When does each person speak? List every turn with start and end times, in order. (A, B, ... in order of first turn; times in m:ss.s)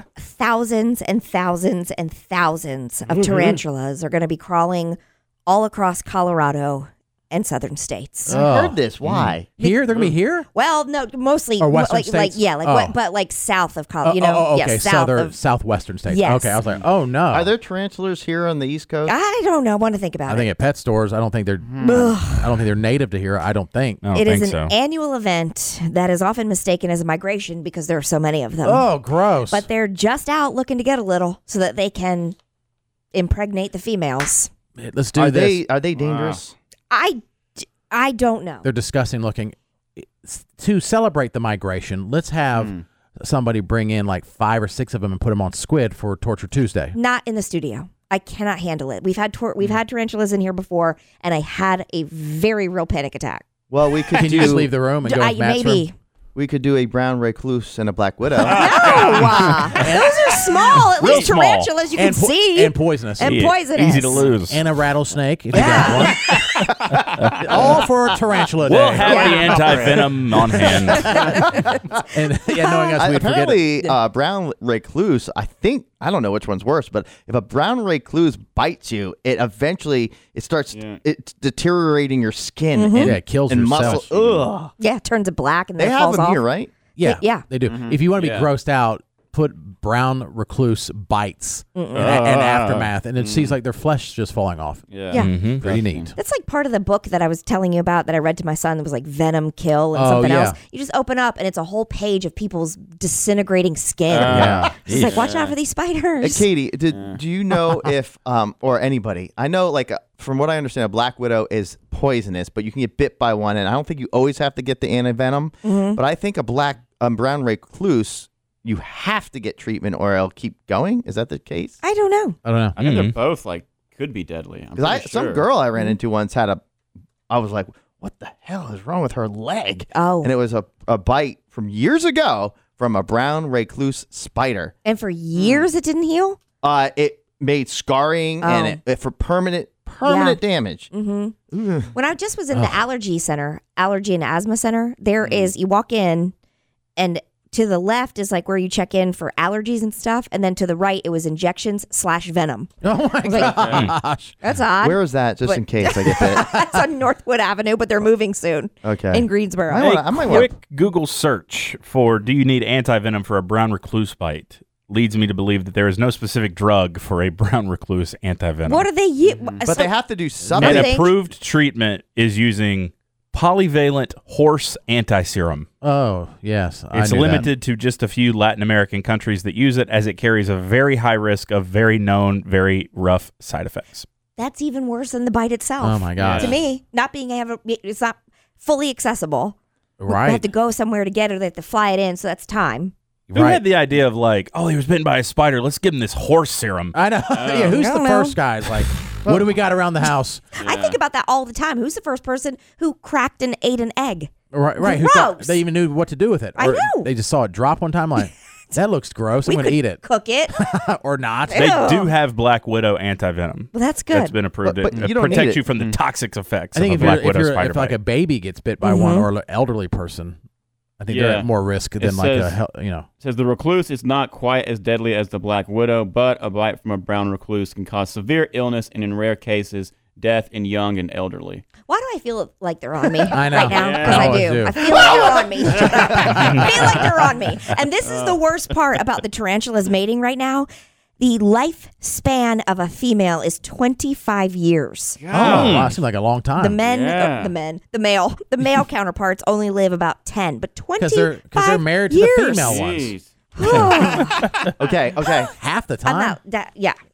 0:00.2-0:08.4 A
0:08.3-0:09.4 B
0:08.3-0:08.8 C
0:09.0-0:09.4 D
0:09.6-0:10.5 C
0:09.6-0:09.8 A
0:10.5-0:15.4 A
0:11.6-0:13.0 C
0:14.0-0:17.5 C
0:16.1-0:16.6 A
0:17.3-0:19.1 B
0:19.0-0:20.5 A
0:20.2-0:24.0 C
0:21.6-0:22.1 E
0:21.8-0:22.5 A
0:24.0-0:24.7 D
0:24.1-0:28.9 A
0:28.6-0:29.7 C
0:29.5-0:32.4 A
0:33.1-0:34.5 A
0:34.8-0:35.6 C
0:35.1-0:36.6 B
0:36.0-0:36.4 E
0:36.9-0:38.7 A
0:38.6-0:47.0 C
0:42.5-0:42.8 E
0:47.0-0:53.4 A
0:53.7-0:54.7 B
0:54.1-0:55.9 C
0:55.0-0:55.9 A
0:56.3-0:59.2 B
0:58.5-1:04.2 A
0:58.6-0:59.3 E
0:59.7-1:00.8 C
1:01.0-1:01.7 D
1:01.0-1:01.3 E
1:01.9-1:03.4 C
1:03.2-1:04.6 D
1:04.5-1:06.6 C
1:05.5-1:06.2 A
1:06.7-1:07.8 B
1:07.2-1:07.5 D
1:07.4-1:10.1 C
1:08.6-1:11.1 D
1:09.0-1:10.0 E
1:09.0-1:09.5 A
1:10.6-1:13.7 C
1:10.9-1:11.8 A
1:11.2-1:11.6 B
1:12.6-1:13.1 A
1:13.0-1:24.7 B
1:20.7-1:21.0 E
1:22.7-1:23.2 A
1:23.0-1:24.0 C
1:23.8-1:24.5 E
1:24.8-1:26.4 A
1:25.8-1:26.7 B
1:27.0-1:34.8 C
1:27.0-1:27.4 A
1:27.6-1:28.5 E
1:31.8-1:32.2 A
1:31.9-1:33.6 E
1:34.9-1:36.1 E
1:35.1-1:35.6 D
1:35.5-1:36.2 C
1:36.2-1:46.5 A
1:39.9-1:40.6 C
1:44.1-1:45.6 E
1:44.3-1:45.3 C
1:44.3-1:44.7 B
1:46.2-2:01.8 B
1:46.9-1:47.2 E
1:55.6-1:56.0 A
2:01.8-2:02.4 A
2:02.4-2:02.8 C
2:02.8-2:05.5 E
2:02.8-2:03.2 D
2:04.8-2:06.6 B
2:07.3-2:14.7 B
2:09.9-2:10.3 A
2:14.8-2:16.4 A
2:15.3-2:15.7 E
2:16.6-2:20.9 B
2:18.4-2:18.8 A
2:20.0-2:20.4 A
2:20.9-2:21.3 A
2:21.5-2:21.9 B
2:21.9-2:26.3 A
2:22.5-2:22.9 C
2:25.2-2:25.5 E
2:27.0-2:32.7 A
2:32.8-2:34.4 C
2:33.2-2:33.9 A
2:33.4-2:33.9 E
2:34.4-2:40.4 A
2:34.8-2:36.4 B
2:36.2-2:36.8 C
2:38.8-2:40.5 B
2:39.8-2:48.9 D
2:48.6-2:49.9 A
2:49.2-2:49.6 E
2:49.6-2:51.0 B
2:50.5-2:51.1 A
2:50.5-2:55.7 D
2:55.8-2:57.5 C
2:56.9-3:04.1 D
3:04.4-3:12.9 A
3:05.8-3:06.6 C
3:06.2-3:06.5 E
3:06.2-3:06.5 D
3:10.0-3:10.5 C
3:13.3-3:13.6 C
3:13.3-3:16.9 D
3:16.9-3:20.4 C
3:17.3-3:17.8 E
3:17.6-3:18.4 A
3:20.6-3:21.0 E
3:20.6-3:25.6 A
3:24.5-3:31.8 C
3:26.6-3:27.1 A
3:29.4-3:30.5 A
3:31.5-3:32.1 A
3:31.5-3:38.0 D
3:33.7-3:34.3 A
3:34.6-3:35.6 B
3:34.9-3:36.0 E
3:36.7-3:40.4 C
3:38.8-3:39.3 A
3:41.0-3:43.1 C
3:41.1-3:41.5 E
3:42.0-3:42.6 E
3:43.2-3:51.6 E
3:51.9-4:00.7 A
3:53.3-3:54.8 C
3:53.7-3:57.0 E
3:56.3-3:56.8 D
3:58.0-3:58.4 E
4:01.2-4:05.2 A
4:05.2-4:06.0 E
4:05.3-4:06.8 C
4:05.3-4:05.9 D
4:06.6-4:12.8 A
4:06.8-4:07.5 E
4:11.0-4:14.4 C
4:12.6-4:13.3 E
4:13.6-4:14.4 A
4:14.8-4:15.5 B
4:15.5-4:16.4 C
4:16.0-4:17.0 A